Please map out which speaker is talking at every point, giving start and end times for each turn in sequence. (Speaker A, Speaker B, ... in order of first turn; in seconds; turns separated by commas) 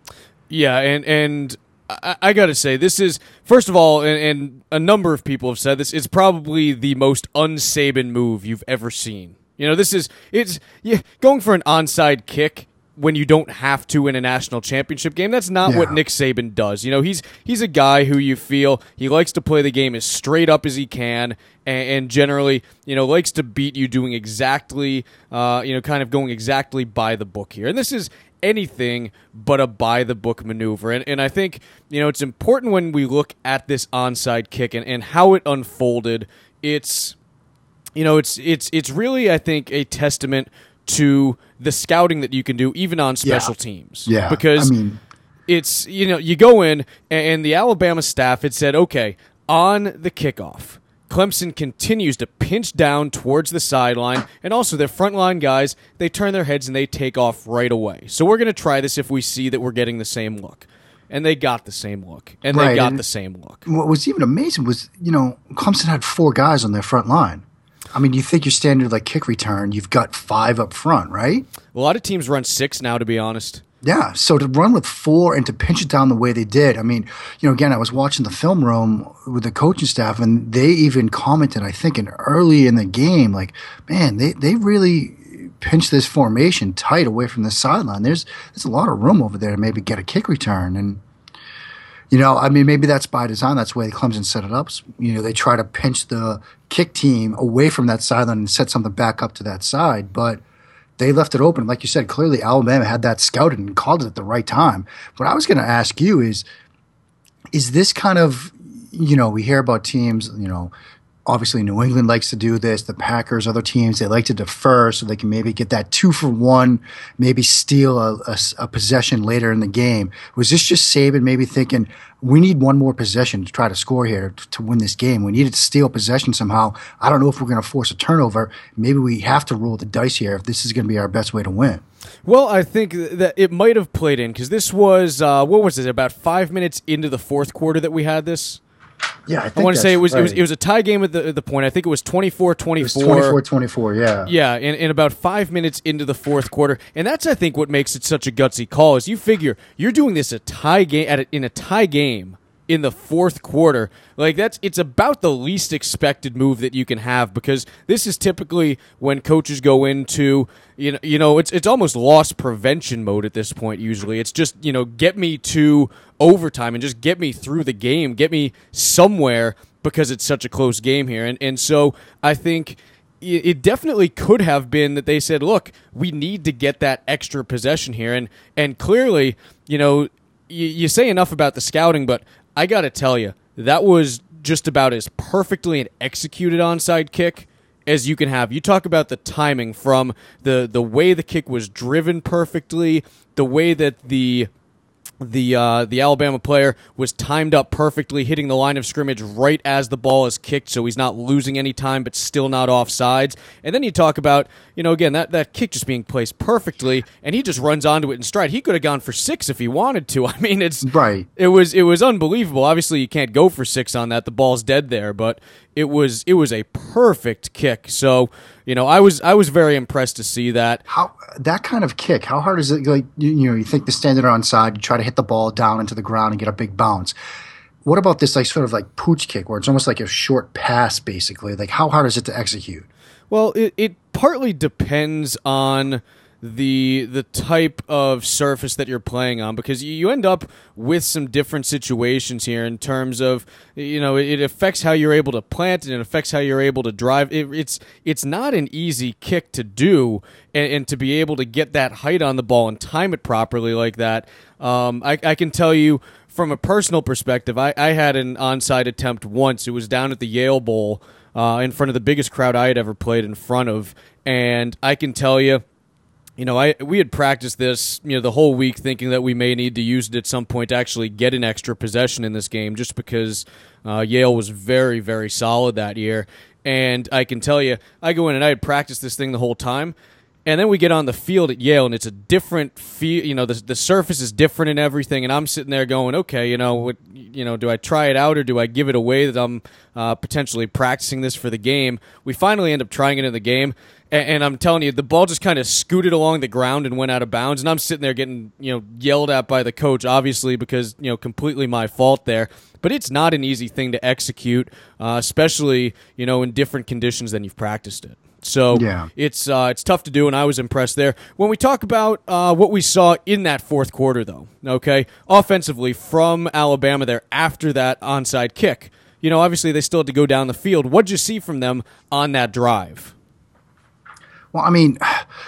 Speaker A: 0.5-37.1, Speaker B: 15.6-16.0, Speaker A: 38.0-44.7, Speaker B: 43.2-43.5, Speaker B: 44.1-45.0, Speaker A: 45.5-63.6, Speaker B: 62.5-63.0, Speaker B: 63.7-71.5, Speaker A: 71.7-73.6, Speaker B: 73.8-91.0, Speaker B: 92.1-100.4, Speaker B: 101.0-106.4, Speaker B: 107.5-110.7, Speaker B: 111.2-131.8, Speaker A: 132.2-138.6, Speaker B: 139.3-140.4, Speaker A: 139.6-143.4, Speaker B: 142.8-144.3, Speaker A: 144.2-194.5, Speaker A: 195.2-220.8, Speaker B: 210.8-211.3, Speaker B: 220.9-227.2, Speaker B: 227.8-232.9, Speaker A: 233.3-265.6, Speaker A: 266.4-323.1, Speaker B: 308.7-309.1, Speaker B: 324.5-325.2